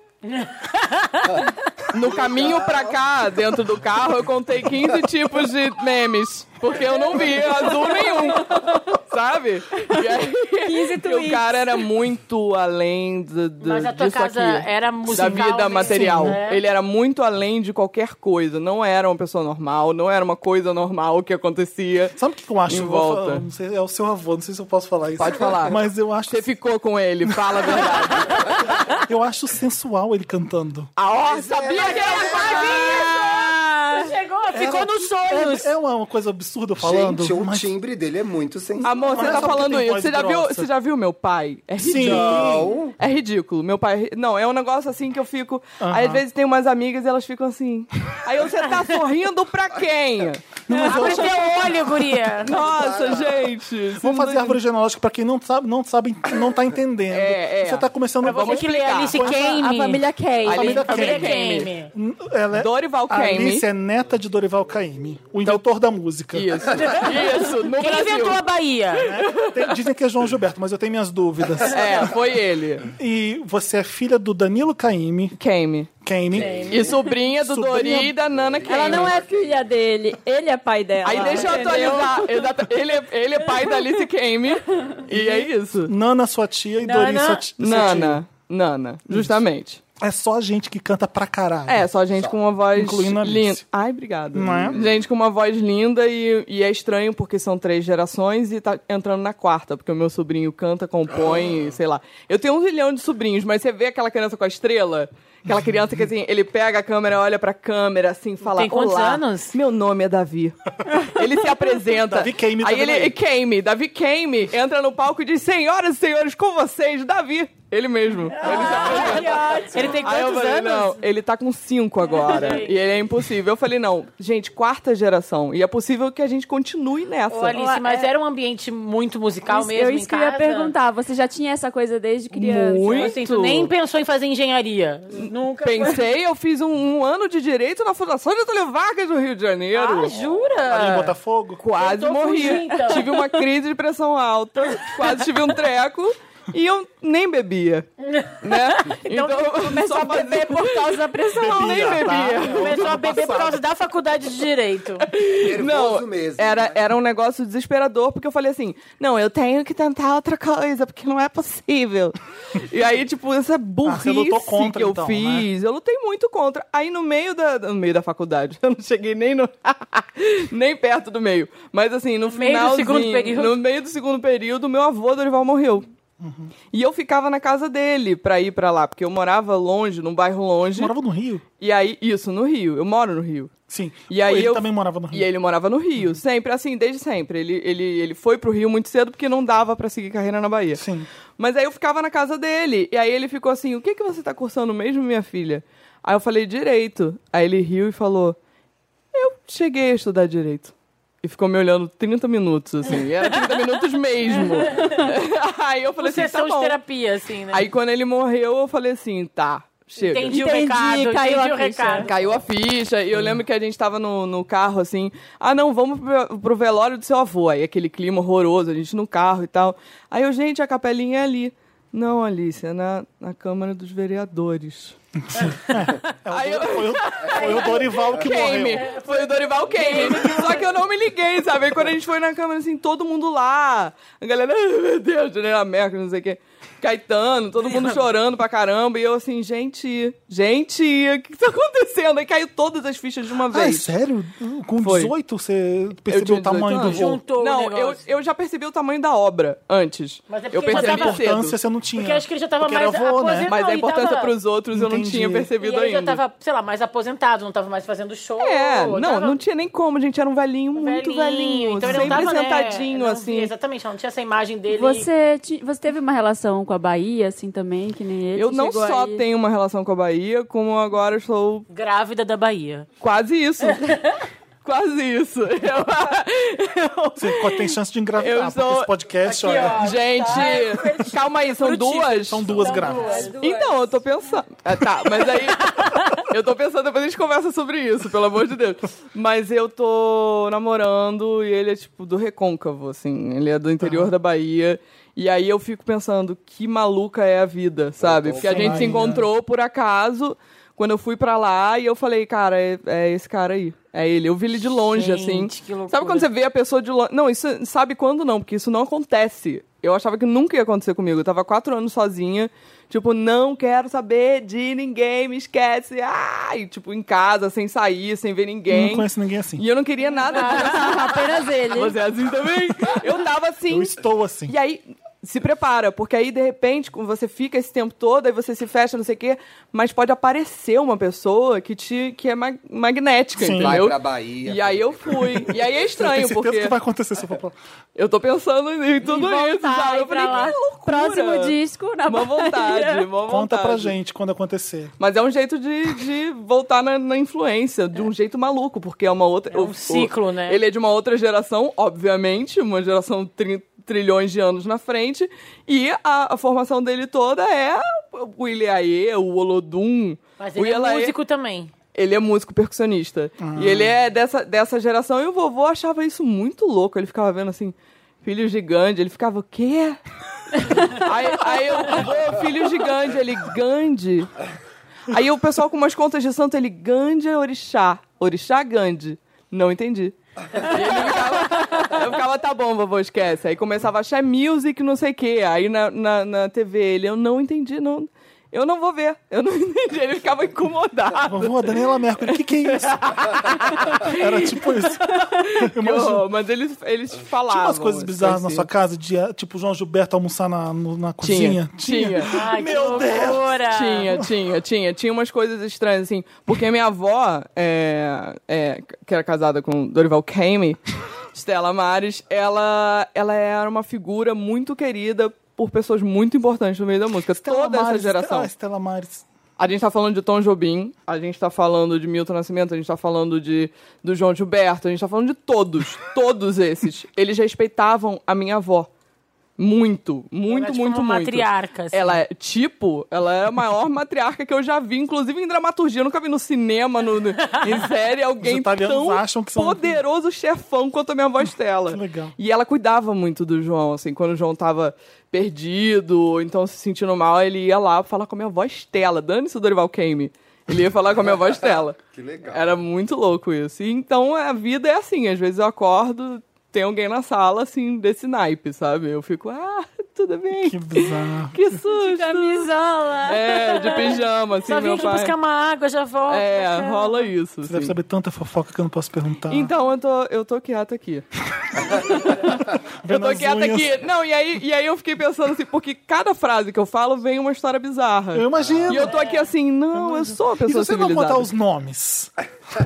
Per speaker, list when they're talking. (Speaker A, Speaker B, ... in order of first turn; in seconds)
Speaker A: 0.3-1.4, 13.6-16.6, 31.7-35.7, 50.7-52.6, 58.2-60.0, 60.7-61.9, 66.8-69.1, 76.4-76.8, 86.8-87.8, 108.4-109.5, 118.4-121.0, 122.1-122.7, 127.3-130.7, 132.9-136.0, 139.7-141.1, 141.7-143.1, 148.0-149.8, 152.4-155.1, 172.3-173.6, 204.7-205.1, 206.0-207.7, 210.0-212.3, 227.3-228.1, 228.8-230.6, 246.7-248.0, 250.3-251.2, 252.0-254.3, 255.6-259.4, 260.8-265.1, 271.7-272.9, 273.7-274.1, 279.2-283.4, 304.6-306.3, 349.5-350.6, 360.4-361.7, 402.2-404.1, 430.5-432.2, 464.6-467.3
Speaker B: 1.3-3.0, 31.3-33.0, 36.8-39.5, 42.0-43.0, 52.4-53.5, 76.3-77.0, 78.3-79.7, 94.5-95.0, 155.3-156.8, 298.0-299.2, 333.6-335.6, 452.1-452.6, 478.6-478.8
Speaker C: 1.9-22.1, 22.7-23.4, 25.2-28.5, 31.0-34.1, 38.8-51.7, 52.4-54.6, 57.1-59.2, 60.4-61.7, 62.5-63.6, 66.3-68.4, 69.1-69.8, 71.7-72.9, 75.4-75.9, 76.7-79.2, 81.0-85.9, 87.6-89.8, 91.7-127.6, 132.3-133.7, 135.2-140.1, 141.6-147.9, 148.4-153.2, 155.1-175.9, 176.7-180.9, 181.6-183.5, 184.1-190.8, 191.4-198.4, 199.1-206.8, 207.5-210.4, 211.9-225.0, 226.3-243.9, 244.8-245.1, 246.1-251.6, 253.5-256.2, 258.4-263.5, 268.4-271.7, 273.0-274.1, 274.6-278.9, 279.6-282.6, 283.4-323.9, 324.5-336.8, 338.0-341.6, 342.1-343.9, 345.0-361.1, 361.9-370.0, 370.6-374.3, 375.1-398.7, 401.2-402.3, 403.7-410.8, 411.3-418.5, 419.6-428.9, 429.6-462.7, 463.2-465.4, 466.3-467.9, 469.5-471.3, 471.9-481.5
Speaker D: 7.9-8.8, 10.6-11.9, 59.1-61.4, 78.7-82.5, 83.5-83.9, 118.4-120.0, 127.5-128.1, 129.5-133.2, 149.2-151.7, 210.3-212.1, 264.7-269.2, 282.7-283.9, 320.2-322.0, 339.0-343.1, 461.9-464.2
Speaker E: 15.1-16.4, 22.2-26.5, 27.2-28.1, 29.0-30.9, 34.5-37.7, 38.8-40.7, 41.8-42.7, 45.8-46.2, 50.7-51.7, 54.0-58.7, 60.5-61.4, 61.9-66.8, 69.0-72.2, 72.9-75.4, 76.0-78.2, 85.1-88.2, 89.1-89.4, 90.0-91.9, 92.7-93.6, 94.3-94.8, 112.1-113.2, 140.6-141.6, 151.3-153.6, 163.8-165.5, 176.2-176.5, 180.8-181.4, 183.7-185.3, 190.8-191.1, 225.3-228.9, 243.5-247.2, 250.7-253.5, 254.7-255.5, 261.9-262.2, 277.2-279.9, 282.1-283.3, 293.8-294.1, 298.4-299.3, 318.7-319.6, 323.7-324.6, 333.4-333.9, 336.0-337.6, 343.2-344.9, 363.4-363.9, 391.2-396.3, 397.5-404.3, 417.4-419.2, 438.4-440.0, 441.9-442.3, 460.6-461.7, 467.6-469.7, 473.0-474.0, 478.3-479.2, 479.9-482.3